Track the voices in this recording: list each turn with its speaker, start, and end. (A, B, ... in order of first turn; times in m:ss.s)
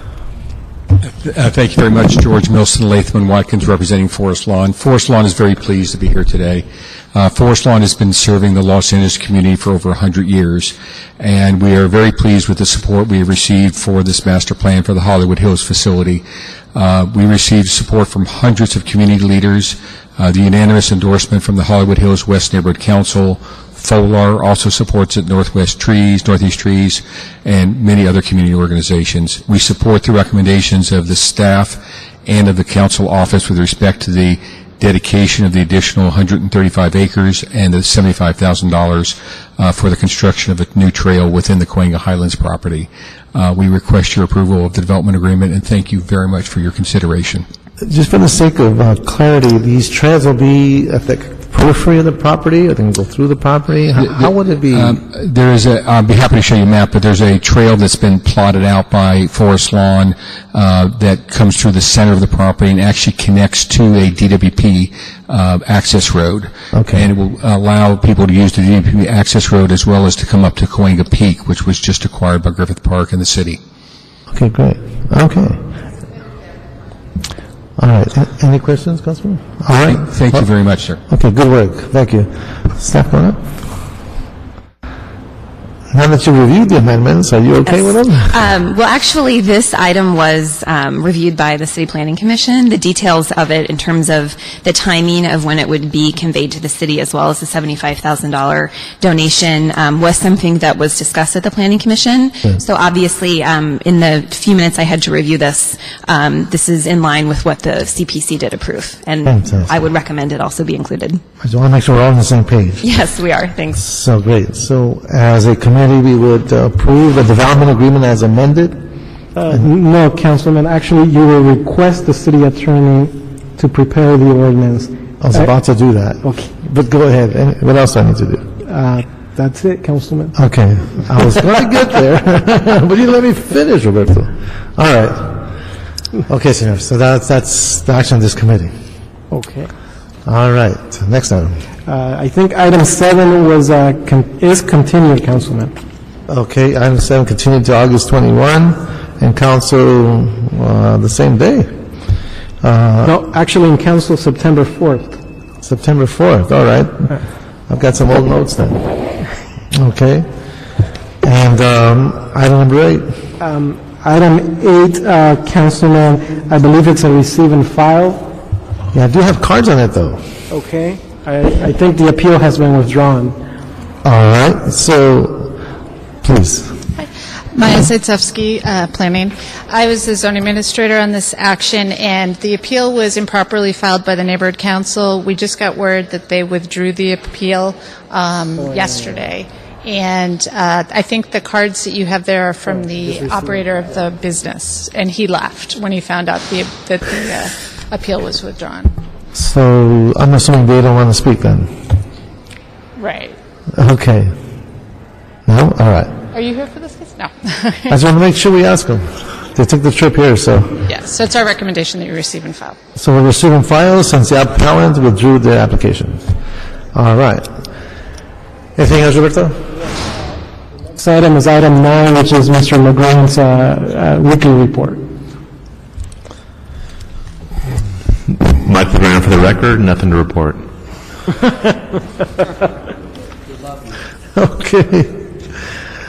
0:01.0-0:47.5 A
0:47.8-0:55.0 B
0:53.9-1:13.6 A
1:06.7-1:07.1 B
1:14.3-1:15.6 B
1:17.8-1:20.5 B
1:19.8-1:21.0 A
1:21.1-1:23.7 B
1:25.9-1:28.4 B
1:27.6-1:51.2 C
1:49.2-1:49.7 B
1:51.4-1:52.8 B
1:52.8-1:53.8 C
1:53.8-1:58.8 B
1:59.4-2:05.5 D
2:05.2-2:08.5 B
2:06.2-2:06.5 D
2:08.6-2:10.3 D
2:10.3-2:15.5 B
2:16.3-2:18.7 B
2:19.3-2:19.7 D
2:20.2-2:21.6 B
2:21.8-2:25.7 D
2:26.3-2:31.8 B
2:32.6-2:33.2 B
2:33.0-2:35.2 D
2:35.6-2:38.9 B
2:39.7-2:40.3 B
2:41.2-2:43.2 B
2:43.4-2:48.3 D
2:48.9-2:50.3 B
2:50.5-2:53.4 D
2:54.0-2:55.6 B
2:56.2-2:56.8 B
2:57.0-3:18.9 E
3:08.6-3:09.2 D
3:12.6-3:14.0 D
3:19.3-3:21.9 B
3:23.0-3:23.4 E
3:23.7-3:24.4 B
3:25.4-3:26.2 B
3:26.3-3:28.0 E
3:27.9-3:30.9 B
3:30.8-3:32.8 E
3:33.0-3:36.4 B
3:36.9-3:37.6 B
3:38.8-3:39.9 B
3:41.0-3:45.0 D
3:48.3-3:50.7 F
3:54.3-3:55.8 B